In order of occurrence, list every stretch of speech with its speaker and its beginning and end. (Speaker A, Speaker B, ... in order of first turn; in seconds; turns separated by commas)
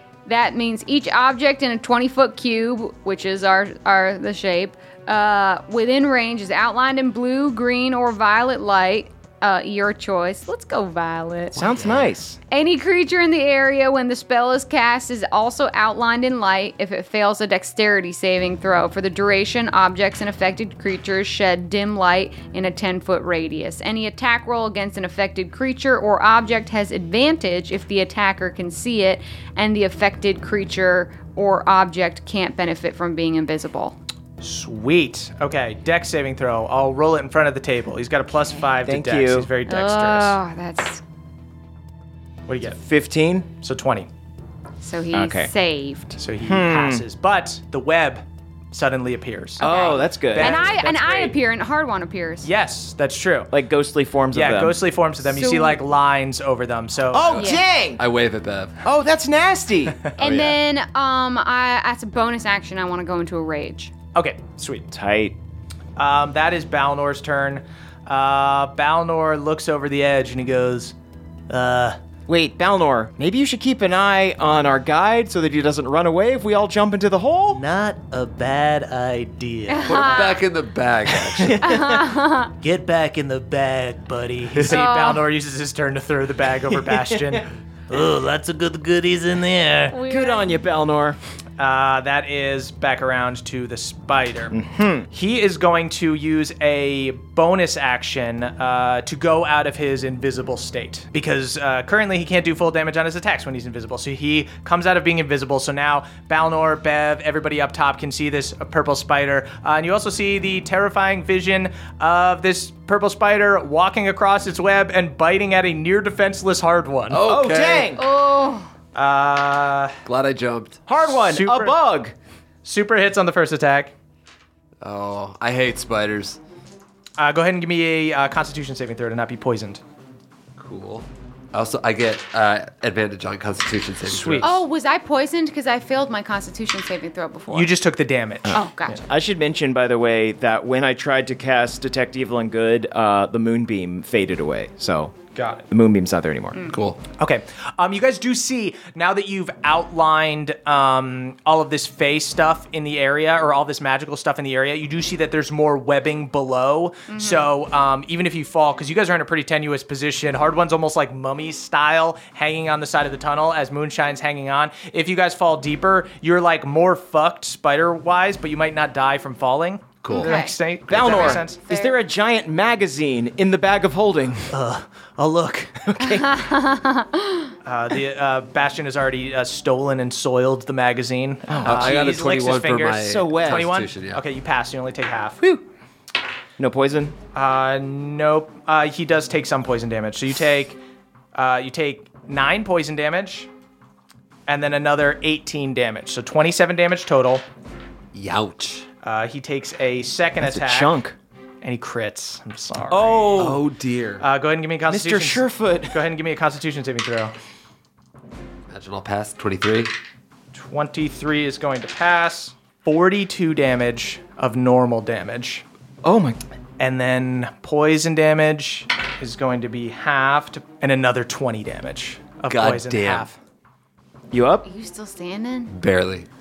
Speaker A: 0.3-11.7, Speaker B: 11.6-12.4, Speaker C: 11.7-12.1, Speaker A: 12.5-34.0, Speaker D: 34.4-40.4, Speaker B: 38.9-39.5, Speaker A: 39.7-41.0, Speaker D: 42.5-42.8, Speaker B: 42.7-43.5, Speaker D: 43.6-44.1, Speaker A: 44.8-46.2, Speaker B: 45.1-45.5, Speaker D: 46.2-49.8, Speaker B: 46.4-47.0, Speaker B: 49.6-51.4, Speaker A: 49.6-52.5, Speaker D: 50.3-51.0, Speaker D: 52.4-53.5, Speaker B: 53.5-54.8, Speaker D: 54.3-57.4, Speaker A: 55.2-55.8, Speaker B: 57.1-58.0, Speaker A: 57.3-57.6, Speaker C: 58.0-58.8, Speaker B: 58.8-60.6, Speaker A: 60.2-63.9, Speaker D: 64.2-64.9, Speaker B: 64.9-65.4, Speaker D: 66.0-70.9, Speaker D: 71.5-71.9, Speaker E: 71.6-71.9, Speaker B: 72.3-77.6, Speaker E: 77.6-79.7, Speaker D: 79.6-79.9, Speaker A: 79.7-80.5, Speaker C: 79.9-81.7, Speaker B: 81.3-82.1, Speaker A: 81.6-82.5, Speaker E: 82.6-84.4, Speaker D: 84.2-87.5, Speaker A: 84.6-85.2, Speaker B: 86.7-87.4, Speaker E: 87.9-90.0, Speaker A: 89.9-90.7, Speaker B: 90.1-91.2, Speaker D: 91.6-94.6, Speaker B: 94.5-95.1, Speaker D: 95.1-117.2, Speaker C: 117.1-118.0, Speaker B: 117.2-118.0, Speaker A: 118.0-118.7, Speaker D: 119.0-120.0, Speaker C: 120.0-120.8, Speaker B: 120.9-122.1, Speaker D: 121.0-121.8, Speaker D: 122.6-123.9, Speaker C: 124.8-126.4, Speaker D: 127.2-129.8, Speaker C: 130.6-134.6, Speaker D: 134.1-134.6, Speaker A: 134.4-137.7, Speaker D: 137.5-139.0, Speaker B: 138.5-145.2, Speaker A: 138.5-139.0, Speaker D: 145.3-145.7, Speaker B: 145.7-146.6, Speaker C: 146.7-147.0, Speaker D: 147.2-171.6, Speaker A: 157.1-157.5, Speaker C: 170.0-170.3, Speaker A: 170.1-170.6, Speaker B: 170.9-174.5, Speaker A: 171.2-171.9, Speaker D: 174.5-175.7, Speaker B: 175.9-176.4, Speaker A: 176.1-177.5, Speaker D: 177.7-185.4, Speaker B: 181.5-182.1, Speaker C: 181.7-184.2, Speaker B: 183.1-183.7, Speaker B: 186.6-187.2, Speaker D: 187.3-190.8, Speaker D: 191.3-193.5, Speaker D: 194.5-197.4, Speaker C: 198.1-198.9, Speaker D: 199.0-200.9, Speaker B: 200.4-201.2, Speaker D: 201.6-203.6, Speaker B: 202.9-203.6, Speaker C: 203.3-204.2, Speaker D: 204.2-207.3, Speaker B: 204.9-206.0, Speaker C: 208.7-209.9, Speaker D: 210.5-215.6, Speaker B: 216.0-216.4, Speaker D: 216.8-223.4, Speaker C: 222.5-223.3, Speaker B: 224.3-224.7, Speaker A: 224.7-225.7, Speaker C: 225.7-226.3